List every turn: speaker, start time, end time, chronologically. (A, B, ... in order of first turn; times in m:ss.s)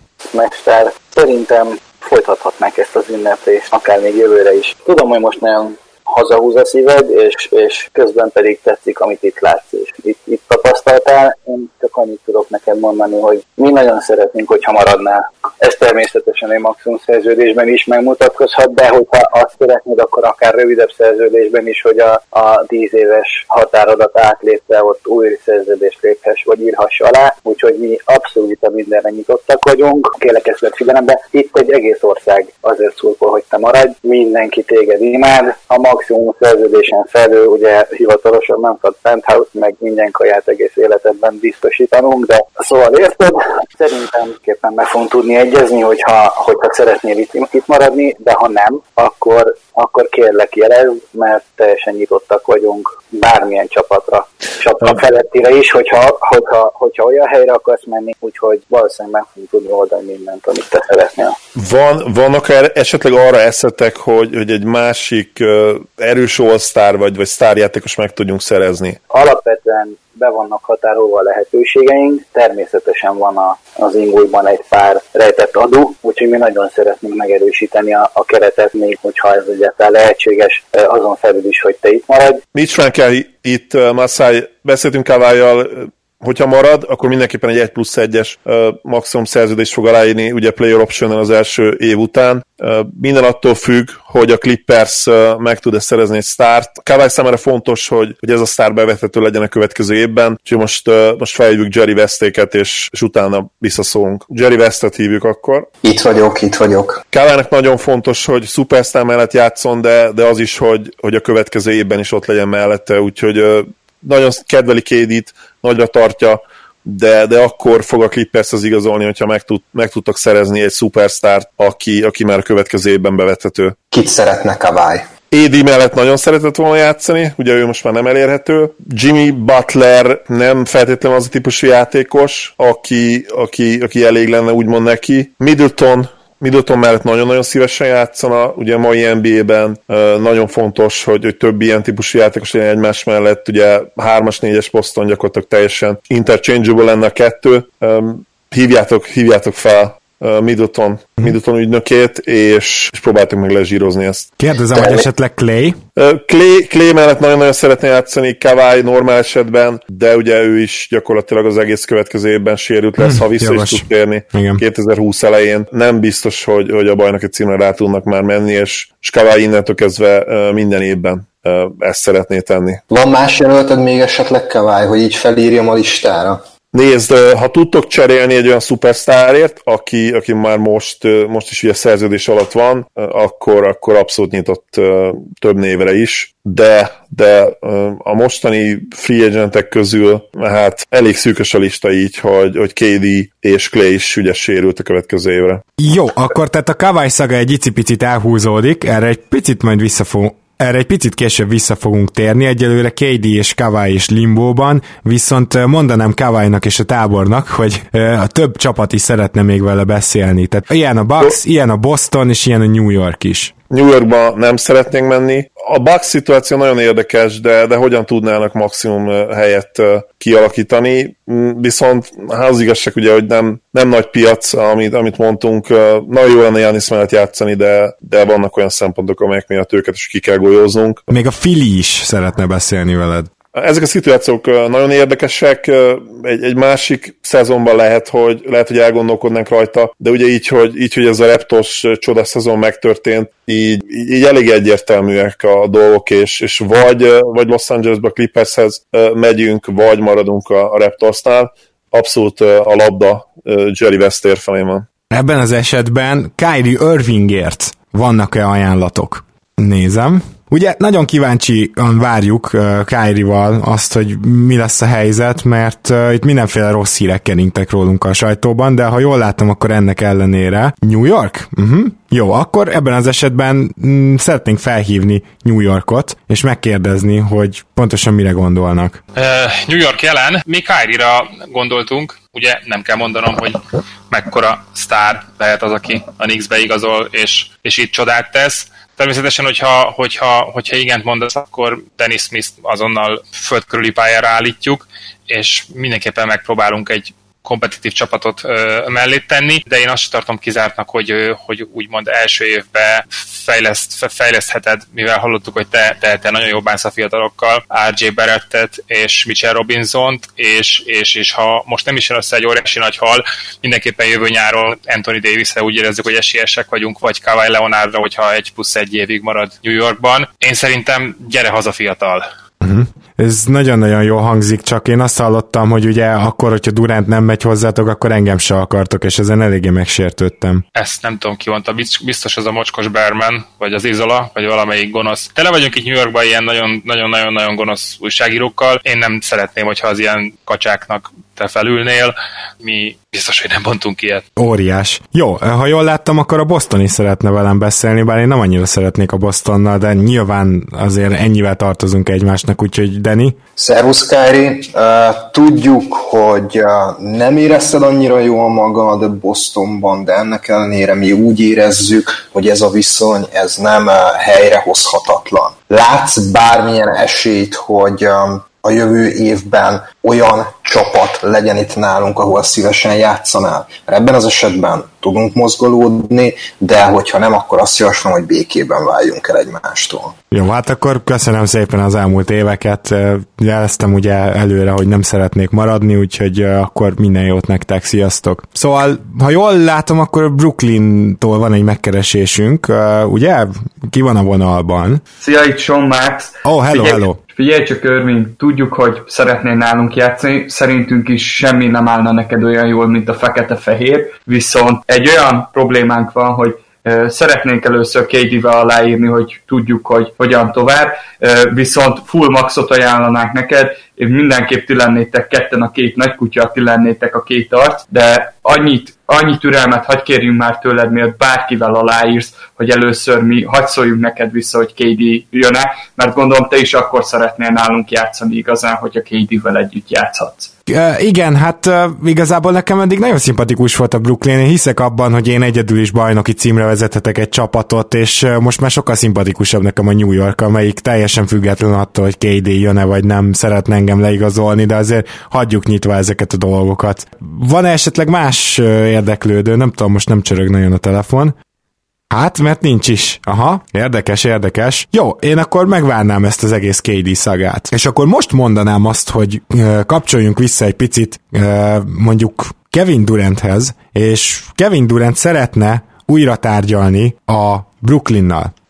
0:00.3-1:01.4 A
1:01.6-1:09.0 B
1:09.1-1:22.4 A
1:22.5-1:45.7 B
1:45.8-1:47.0 C
1:47.1-2:03.8 B
2:03.9-2:05.1 C
2:05.3-2:34.3 B
2:34.4-2:35.8 D
2:36.0-2:52.8 B
2:43.0-2:44.6 D
2:52.9-2:56.4 C
2:56.7-3:15.6 B
3:15.8-3:33.5 D
3:33.7-3:51.0 B
3:51.1-3:53.3 D
3:53.5-4:14.8 B
4:15.1-4:39.0 D
4:39.2-5:22.3 E
5:22.6-5:30.6 D
5:30.8-5:44.2 E
5:44.4-5:53.4 D
5:53.6-6:20.1 C
6:20.3-6:35.0 D
6:35.2-7:10.5 F
6:36.4-6:37.2 D
7:10.7-7:31.4 D
7:32.1-7:48.5 D